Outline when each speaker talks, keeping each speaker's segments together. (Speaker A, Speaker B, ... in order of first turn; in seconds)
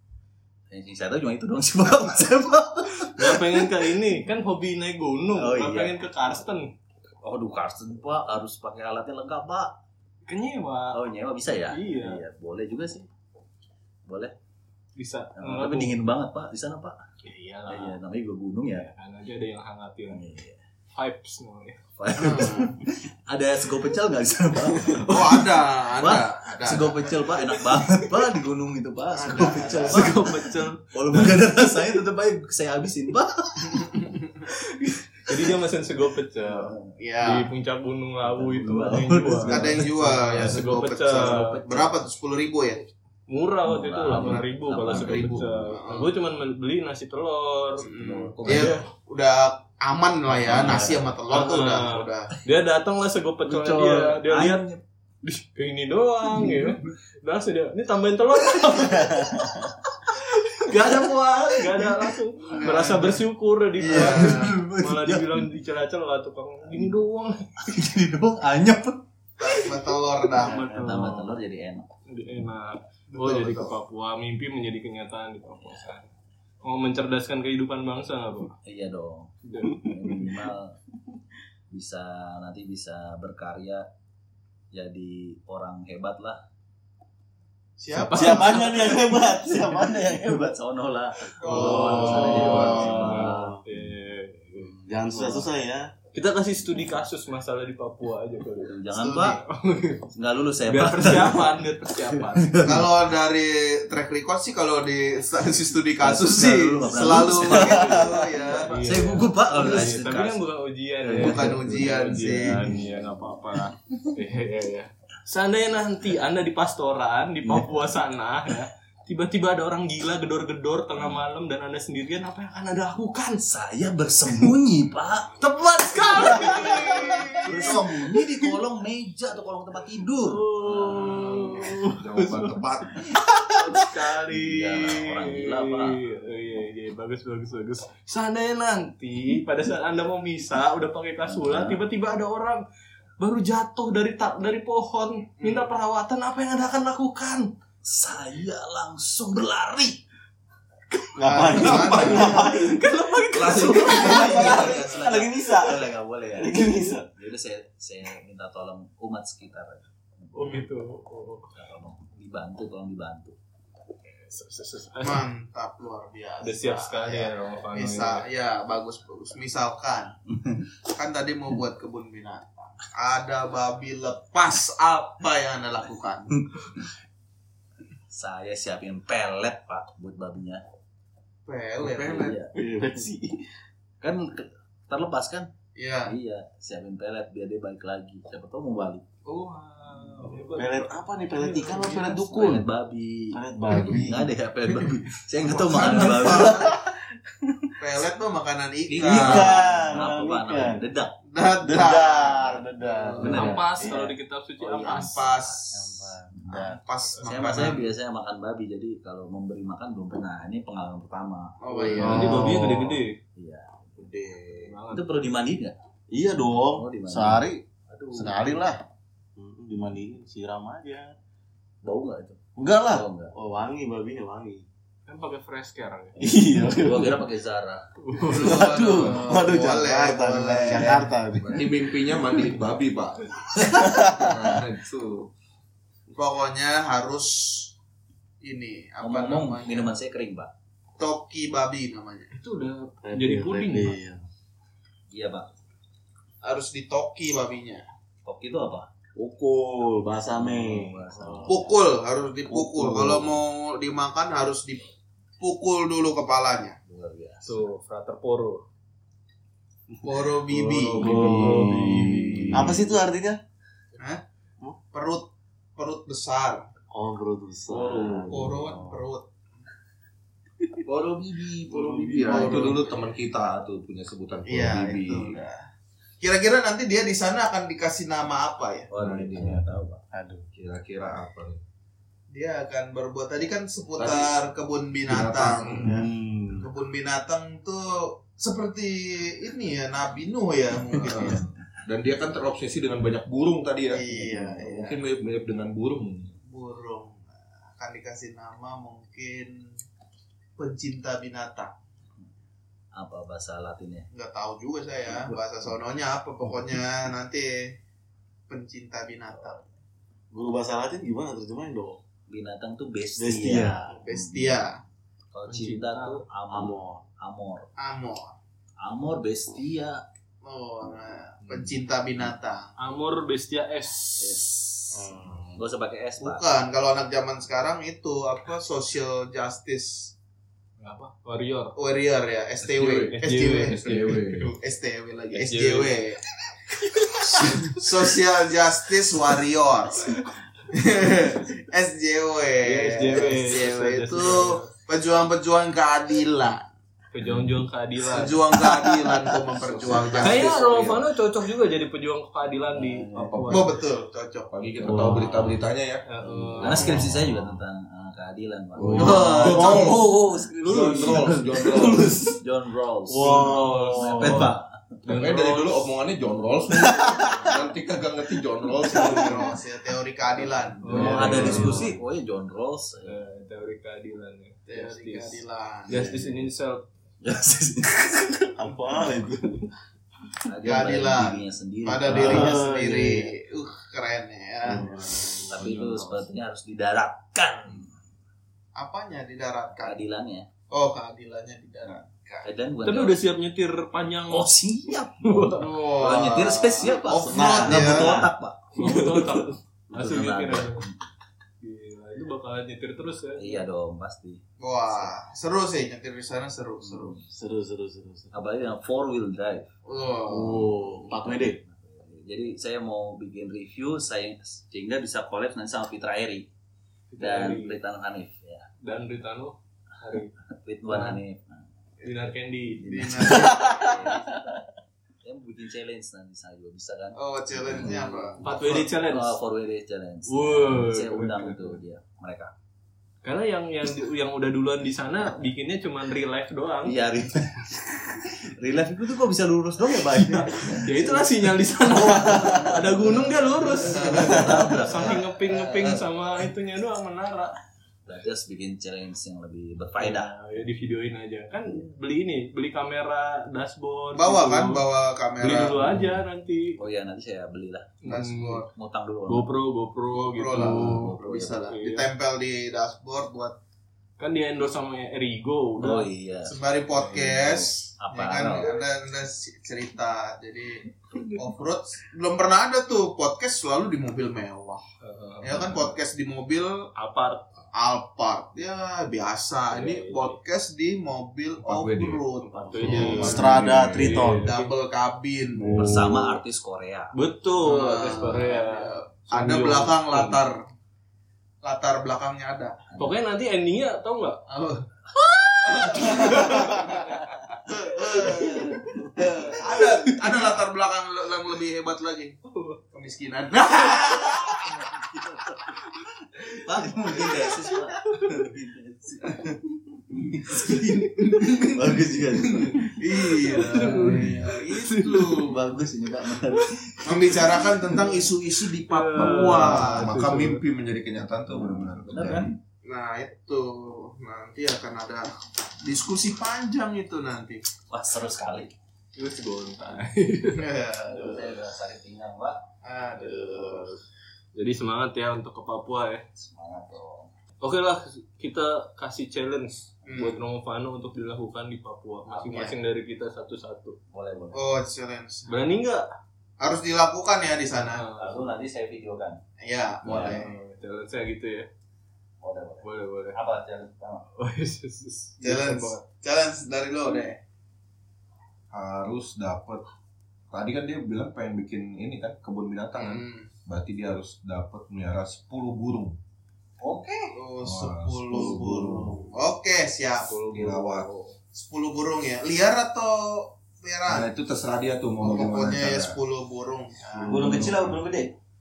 Speaker A: 0.7-4.0, 5.3-6.0, 7.2-9.8, 10.9-13.1, 14.1-14.3, 15.4-17.0, 17.7-18.9, 20.1-20.6, 22.0-33.9, 36.4-37.0, 38.2-40.6, 41.1-41.9, 43.6-45.7, 47.8-48.8, 50.5-51.0, 53.5-54.8, 56.4-56.7, 60.8-61.9, 63.8-65.5, 67.6-69.0, 70.4-71.9, 78.6-80.8, 81.7-83.9, 84.7-86.4, 88.8-93.5, 98.6-99.4, 100.1-102.9, 106.0-110.4, 111.0-111.6, 112.6-113.0, 117.5-117.7, 120.9-121.2, 123.4-131.6, 133.2-136.0, 141.2-141.8, 147.8-150.0, 153.3-160.7, 161.6-163.3, 176.5-176.9, 178.1-180.6, 181.8-182.5, 184.0-185.5, 186.1-189.1, 191.8-196.7, 199.2-201.2, 203.2-212.8, 213.4-215.8, 216.5-218.5, 221.8-223.3, 226.6-227.8, 239.0-240.5, 245.1-245.5, 248.2-248.9, 250.3-251.7, 256.9-257.6, 261.6-262.8, 267.8-268.3, 278.9-280.0, 302.9-304.1, 312.3-314.6, 315.3-317.7, 318.8-320.0, 324.2-326.5, 356.2-365.0, 370.9-373.2, 377.2-378.5, 380.5-382.6, 385.5-387.9, 389.8-390.5, 392.4-393.2, 394.3-399.4, 399.9-401.0, 403.4-405.1, 406.8-407.2, 408.3-409.7, 411.1-416.5, 417.2-418.7, 420.5-421.7, 422.8-424.7, 425.2-432.5, 436.8-445.3, 448.1-450.6, 456.8-458.2, 458.7-459.5, 460.5-461.6, 465.8-468.8, 485.7-487.1, 492.9-493.2, 495.1-496.9, 498.1-499.6, 504.3-509.6, 510.1-512.9, 515.4-517.6, 521.5-522.5, 527.9-528.7, 531.1-532.6, 536.4-537.3, 542.3-542.7, 544.1-544.6, 548.2-549.4, 550.0-550.5, 552.4-554.2, 566.8-567.3, 577.3-578.3
Speaker B: 3.0-6.7, 10.3-11.0, 11.7-12.2, 15.0-16.0, 17.2-18.0, 18.7-20.3, 20.9-21.8, 27.7-28.1, 29.5-31.5, 34.6-41.6, 43.3-48.9, 50.5-54.7, 55.2-59.5, 60.1-67.5, 70.3-71.4, 72.1-76.1, 76.6-78.5, 79.4-80.2, 87.9-89.2, 91.5-95.5, 96.1-100.1, 100.7-102.7, 107.4-123.4, 125.4-128.2, 130.2-142.6, 143.2-147.5, 151.6-154.6, 160.3-161.5, 164.2-165.3, 166.4-168.3, 189.3-192.2, 203.2-205.3, 211.9-213.2, 214.5-215.1, 225.1-226.2, 228.0-229.1, 242.3-244.0, 257.4-258.6, 261.2-262.5, 315.5-316.2, 322.8-324.6, 330.8-331.8, 333.0-334.2, 335.3-336.0, 336.9-337.8, 342.6-344.7, 347.1-348.5, 350.2-353.8, 356.1-357.1, 359.1-360.0, 360.6-361.3, 363.2-365.9, 367.1-367.6, 370.8-372.0, 373.0-376.9, 392.8-394.5, 395.2-395.8, 398.7-400.9, 401.6-403.6, 417.1-417.8, 418.8-420.3, 420.9-421.2, 422.0-423.6, 428.4-429.4, 430.3-431.8, 433.2-437.0, 440.6-447.6, 450.0-454.9, 455.4-456.8, 458.0-458.7, 459.3-462.1, 464.2-466.1, 475.0-475.9, 476.9-477.4, 479.7-480.4, 482.4-484.7, 487.1-490.4, 493.0-494.4, 495.8-498.7, 500.0-500.3, 502.5-502.8, 508.0-508.5, 510.6-511.5, 512.6-515.6, 516.4-516.8, 518.8-520.6, 529.2-530.8, 533.2-534.0, 534.5-536.2, 537.6-544.0, 545.5-546.1, 547.8-548.5, 550.1-551.7, 552.8-553.4, 554.4-556.0, 570.2-571.4
Speaker C: 22.1-22.8, 25.1-27.1, 29.1-30.1, 33.7-34.4, 37.0-37.5, 39.5-42.8, 44.1-44.4, 44.9-46.1, 47.8-52.3, 62.5-63.2, 63.8-64.5, 69.4-70.7, 73.1-73.8, 87.8-88.8, 91.4-92.6, 98.9-99.4, 102.6-108.8, 111.1-112.8, 145.4-145.7, 151.2-152.4, 153.9-155.1, 165.0-170.2, 170.9-176.3, 181.5-182.4, 185.8-186.2, 195.6-196.8, 197.8-199.5, 201.3-203.5, 204.8-205.7, 206.8-207.9, 211.6-212.5, 228.2-231.1, 236.1-237.7, 238.4-239.9, 241.0-242.3, 246.4-247.8, 251.5-256.8, 260.0-261.2, 264.9-266.7, 268.3-269.3, 272.2-272.9, 274.5-275.6, 276.2-278.9, 282.3-291.4, 293.9-295.0, 296.5-299.6, 300.6-301.7, 304.1-307.8, 308.5-309.6, 313.9-314.8, 317.8-318.4, 320.4-322.7, 326.2-330.1, 331.8-336.2, 337.4-346.7, 348.1-350.8, 353.5-354.5, 358.9-359.9, 368.9-371.6, 374.7-376.1, 380.6-385.1, 388.8-390.0, 390.7-392.5, 395.5-398.3, 404.6-407.2, 409.9-410.7, 422.9-423.9, 427.1-428.8, 443.9-444.5, 445.1-446.0, 454.1-456.0, 458.1-458.7, 460.2-463.6, 466.5-474.8, 475.4-476.9, 477.7-483.5, 484.3-485.9, 487.6-490.6, 491.6-492.8, 494.5-494.8, 495.6-502.4, 502.9-504.6, 511.2-511.8, 512.7-515.7, 517.0-518.4, 519.1-520.2, 522.9-525.3, 525.8-527.6, 530.5-531.5, 532.8-534.0, 540.0-540.4, 544.5-545.5, 546.6-548.0, 549.6-550.5, 555.4-557.4, 563.0-563.5, 567.3-570.4, 571.5-574.3, 575.2-577.6
Speaker D: 45.0-45.2, 127.5-128.0, 131.8-133.1, 198.9-199.6, 230.7-235.3, 260.5-262.8, 267.8-268.2, 270.9-275.4, 279.0-279.6, 280.5-281.6, 284.0-284.3, 285.1-285.9, 291.0-296.3, 332.6-333.1, 333.7-334.5, 349.5-351.1, 353.1-353.7, 354.5-356.0, 358.8-360.1, 360.7-362.2, 365.1-369.6, 481.6-482.2, 482.8-484.3, 517.4-522.6, 558.7-559.8, 560.5-566.2, 567.6-569.3, 570.5-571.1, 574.1-576.2, 577.2-578.0
Speaker E: 88.1-90.6, 91.5-93.6, 94.6-95.9, 151.2-152.9, 153.5-157.1, 182.5-183.4, 190.5-192.7, 193.3-194.3, 195.7-197.7, 199.0-200.8, 201.6-204.1, 205.7-206.8, 211.9-213.0, 216.1-218.8, 219.4-221.1, 222.6-224.7, 226.2-227.2, 228.3-231.7, 233.6-234.6, 243.0-244.2, 249.2-251.7, 252.5-253.3, 260.9-263.4, 266.9-269.0, 271.7-272.7, 279.4-280.5, 285.8-286.7, 310.3-312.0, 313.2-314.0, 316.5-317.0, 324.9-325.6, 348.9-349.2, 354.8-355.6, 358.8-362.4, 363.1-364.5, 366.7-367.6, 369.0-369.3, 370.9-371.9, 375.9-376.4, 378.6-379.7, 382.1-383.3, 384.6-386.2, 398.8-399.3, 407.3-408.3, 410.3-411.6, 423.3-424.2, 442.1-442.6, 444.2-444.6, 482.7-484.5, 485.6-486.4, 568.3-569.2, 577.3-578.0